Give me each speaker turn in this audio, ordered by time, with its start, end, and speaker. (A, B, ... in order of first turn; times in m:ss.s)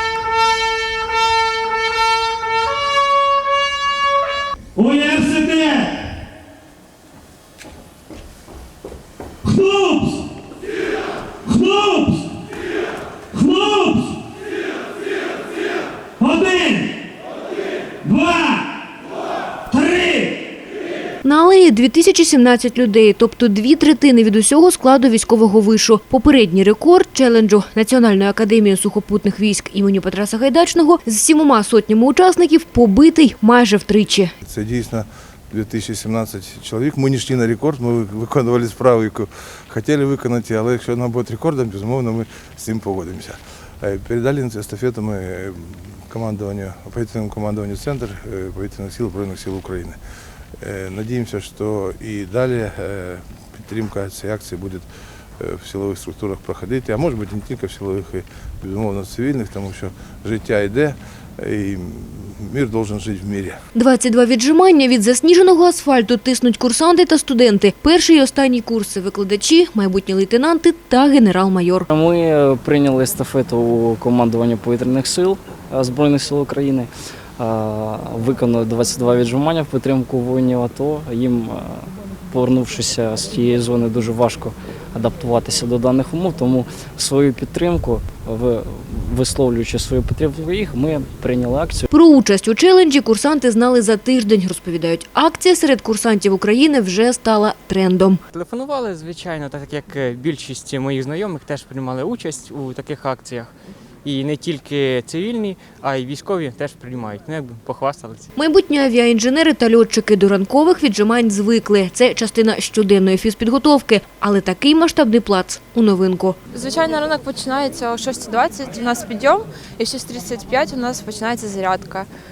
0:04.8-0:06.0 A
0:09.4-0:10.3 A
0:11.4-0:12.4 A
0:13.3-0:14.2 A
0:16.2-0:16.9 A
0:18.0-0:18.7 A
0:19.7-0:20.4 A
0:21.2-0:34.3 B
0:34.4-0:50.0 C
0:50.6-0:54.8 C
0:55.4-1:03.6 C
1:03.7-1:11.9 B
1:11.9-1:31.9 D
1:31.9-1:38.2 B
1:38.3-1:43.5 E
1:44.0-1:48.3 E
1:48.4-1:56.4 B
1:56.5-2:02.1 F